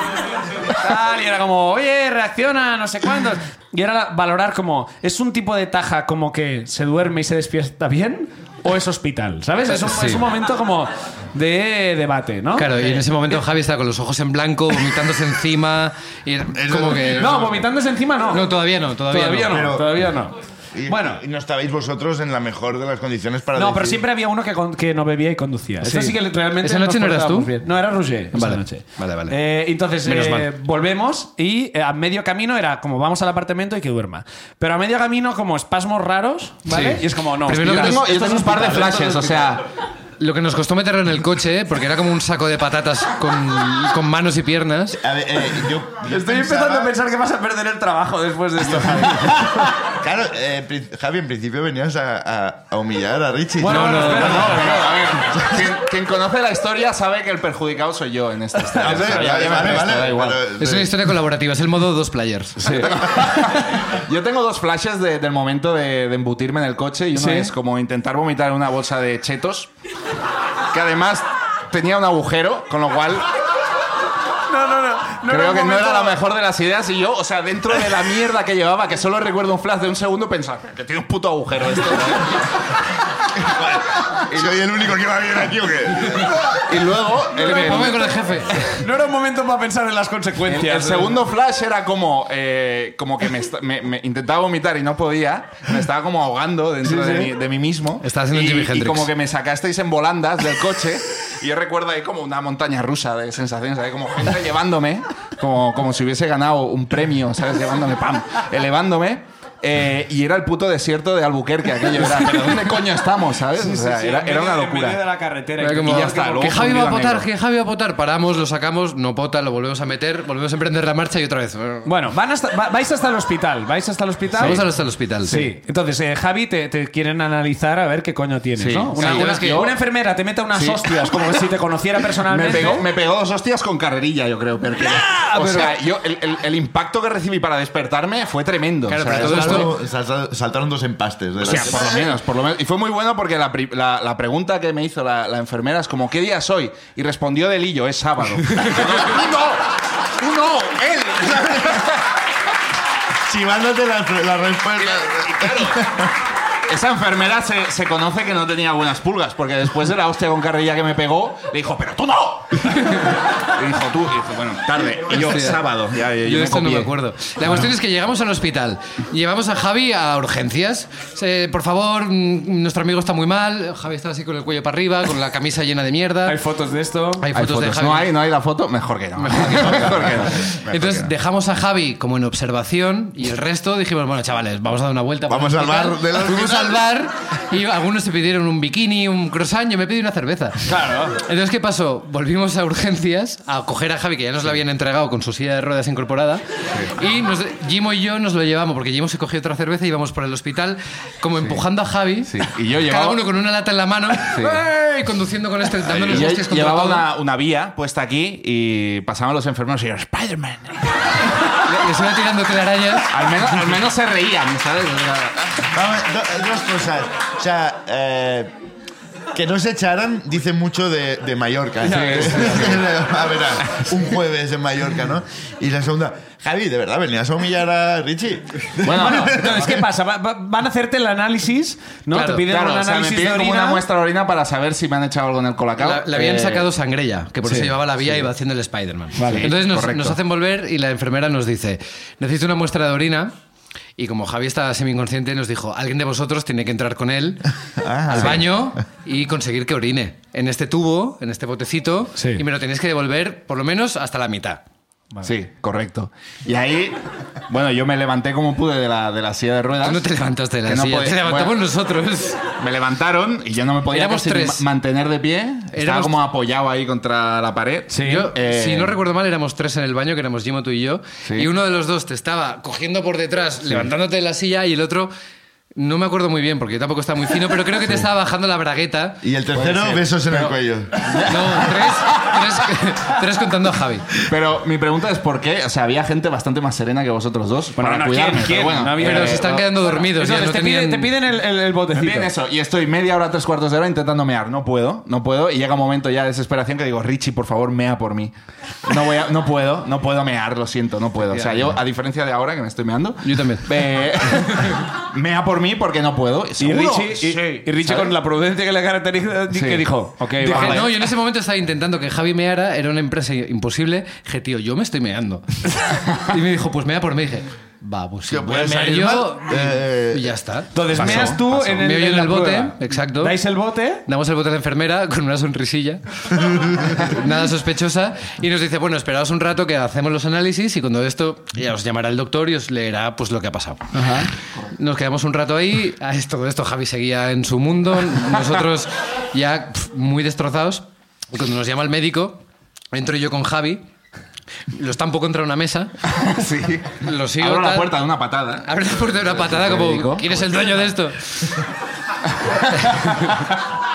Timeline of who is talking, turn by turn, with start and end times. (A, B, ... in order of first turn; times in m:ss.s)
0:00.6-0:13.0 A
0:09.8-0:10.2 B
0:12.6-0:17.4 B
0:16.5-0:17.6 C
0:17.1-0:18.5 A
0:18.3-0:19.7 B
0:19.1-0:20.4 A
0:19.5-0:20.0 C
0:20.7-0:24.0 C
0:20.9-0:21.2 A
0:23.6-0:39.1 A
0:25.9-0:27.6 B
0:28.3-0:29.4 B
0:30.0-0:30.5 B
0:36.7-0:39.3 B
0:37.6-0:39.6 D
0:40.2-0:45.0 B
0:45.0-0:46.9 C
0:46.0-0:49.8 A
0:48.6-0:54.6 C
0:53.6-0:55.3 A
0:53.7-0:54.7 B
0:54.1-1:00.5 D
0:58.6-0:59.8 A
0:58.7-1:01.1 C
1:00.6-1:02.9 B
1:02.6-1:02.9 A
1:02.8-1:09.7 D
1:07.2-1:07.5 A
1:10.7-1:13.3 D
1:14.5-1:16.2 A
1:15.3-1:22.4 D
1:23.4-1:26.6 C
1:24.3-1:24.6 D
1:26.2-1:28.2 D
1:27.4-1:28.6 B
1:27.4-1:31.2 A
1:30.5-1:55.0 D
1:36.8-1:37.3 A
1:38.0-1:39.1 B
1:52.0-1:52.5 A
1:53.6-1:56.8 A
1:55.6-2:01.9 B
1:55.8-1:57.3 D
2:01.8-2:04.7 A
2:04.4-2:05.5 B
2:05.2-2:12.9 A
2:08.6-2:09.8 D
2:09.0-2:09.7 B
2:10.5-2:11.0 D
2:12.2-2:19.7 D
2:14.8-2:15.8 A
2:18.9-2:19.7 B
2:19.1-2:22.0 C
2:21.4-2:32.0 D
2:33.2-2:36.1 C
2:34.8-2:35.9 D
2:36.7-2:46.9 D
2:45.1-2:56.4 B
2:56.2-2:57.3 A
2:57.2-2:58.1 B
2:57.4-3:01.1 D
2:59.2-3:27.0 B
3:05.3-3:06.9 C
3:10.7-3:11.2 A
3:22.3-3:23.2 D
3:24.2-3:24.6 D
3:25.8-3:30.8 D
3:31.5-3:33.3 B
3:33.1-3:35.6 D
3:35.7-3:38.5 C
3:39.3-3:49.9 C
3:41.9-3:42.4 A
3:41.9-3:42.2 B
3:42.0-3:42.8 D
3:48.8-3:49.7 D
3:48.9-3:53.8 A
3:52.1-3:52.4 B
3:52.5-3:56.7 D
3:55.8-4:03.3 B
3:57.4-3:57.7 A
3:58.0-3:58.3 D
3:59.2-3:59.5 A
3:59.2-4:00.2 D
4:04.0-4:07.5 B
4:07.8-4:08.7 C
4:08.1-4:14.6 B
4:08.2-4:08.4 D
4:12.2-4:12.4 A
4:15.2-4:20.1 D
4:19.8-4:22.5 B
4:20.7-4:21.6 D
4:22.6-4:29.0 D
4:23.9-4:24.6 B
4:25.8-4:26.2 B
4:27.9-4:28.3 A
4:28.0-4:35.1 B
4:31.2-4:31.5 D
4:35.8-4:39.2 B
4:39.2-4:41.0 C
4:39.5-4:40.5 D
4:41.1-4:42.2 D
4:41.1-4:44.2 B
4:44.3-4:49.6 D
4:47.8-4:52.3 A
4:49.0-4:51.2 B
4:51.9-4:58.3 D
4:58.9-5:08.1 D
5:01.3-5:01.7 B
5:03.2-5:03.6 B
5:06.6-5:10.9 A
5:09.5-5:09.9 D
5:10.4-5:11.0 D
5:10.5-5:23.4 B
5:18.3-5:20.4 C
5:20.7-5:24.0 A
5:20.9-5:21.4 D
5:24.1-5:33.9 B
5:33.9-5:34.3 A
5:34.8-5:43.9 B
5:44.7-5:46.0 B
5:46.2-5:50.9 D
5:47.0-5:48.0 B
5:48.6-5:51.5 B
5:52.7-5:53.4 B